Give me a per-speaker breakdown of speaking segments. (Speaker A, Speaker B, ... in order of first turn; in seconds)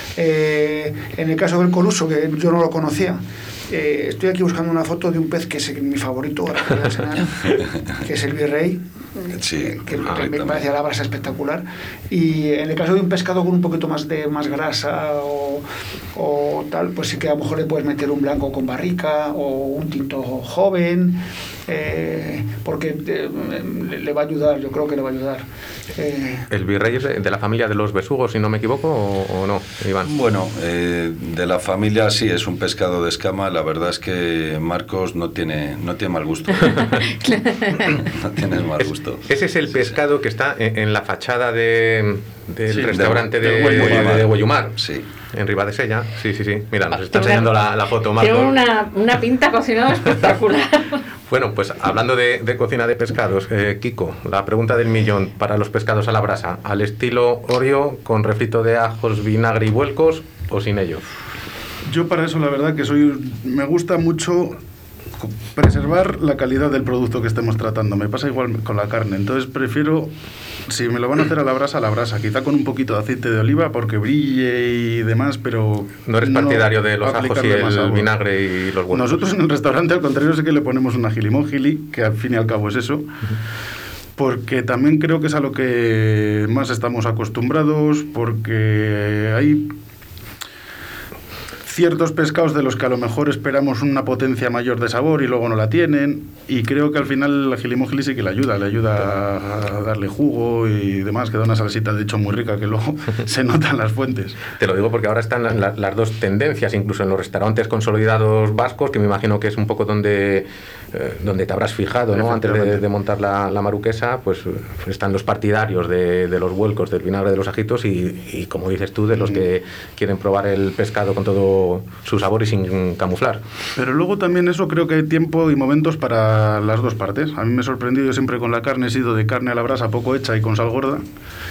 Speaker A: 0.2-15.6, 16.1-25.4, 26.0-26.5
Speaker B: 9.3-10.6, 30.0-37.0, 38.0-39.2, 42.9-45.1
Speaker C: 26.5-30.1, 38.8-44.8, 45.3-48.5, 51.3-61.0, 76.1-79.1, 104.6-123.4
Speaker D: 37.2-37.9, 46.9-47.5, 48.2-51.0
Speaker E: 42.7-44.2, 61.9-64.6, 65.2-70.1, 70.7-78.1, 78.9-83.1, 84.2-89.7, 91.7-104.4, 112.1-112.8, 119.1-119.5, 123.8-131.0